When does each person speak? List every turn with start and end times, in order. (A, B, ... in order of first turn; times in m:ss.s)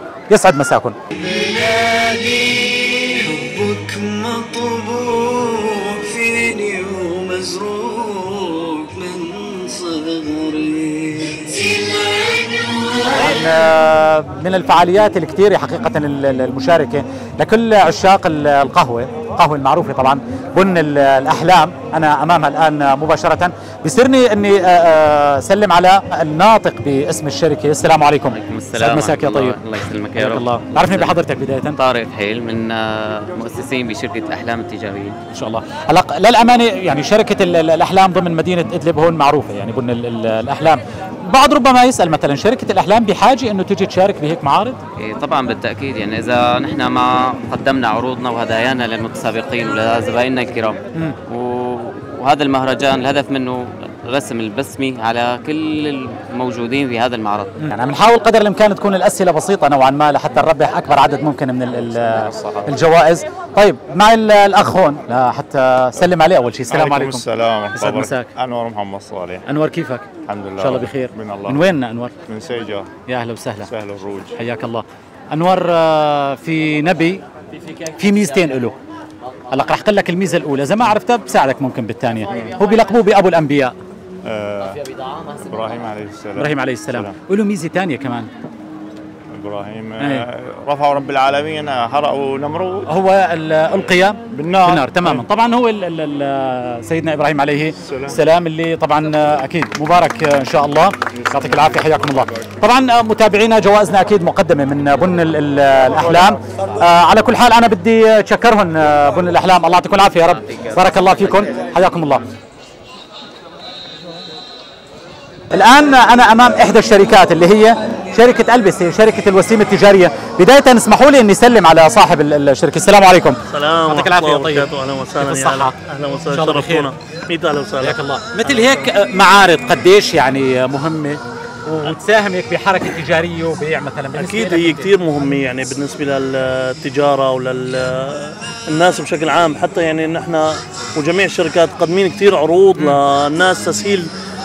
0:00.3-0:01.0 A
0:01.2-0:12.8 B
0:13.0-0:29.6 A
0:28.3-0:31.2 C
0:30.2-0:31.8 A
0:31.7-0:35.2 C
0:35.3-0:44.8 A
0:45.0-0:57.5 C
0:57.6-1:08.3 A
1:01.8-1:02.8 D
1:06.7-1:09.4 D
1:09.5-1:10.1 A
1:10.3-1:11.7 D
1:10.6-1:12.1 A
1:12.3-1:12.9 D
1:13.1-1:13.7 A
1:13.6-1:14.3 D
1:14.4-1:17.2 A
1:18.0-1:18.7 A
1:19.5-1:23.7 A
1:24.2-1:27.1 D
1:26.4-1:28.3 A
1:29.3-1:32.9 D
1:30.0-1:30.2 A
1:32.9-1:52.2 A
1:34.3-1:35.2 D
1:37.8-1:38.2 D
1:50.5-1:51.3 C
1:55.5-2:03.4 A
2:03.5-2:08.0 E
2:03.9-2:05.7 A
2:06.3-2:06.9 A
2:07.8-2:14.9 A
2:14.1-2:24.1 E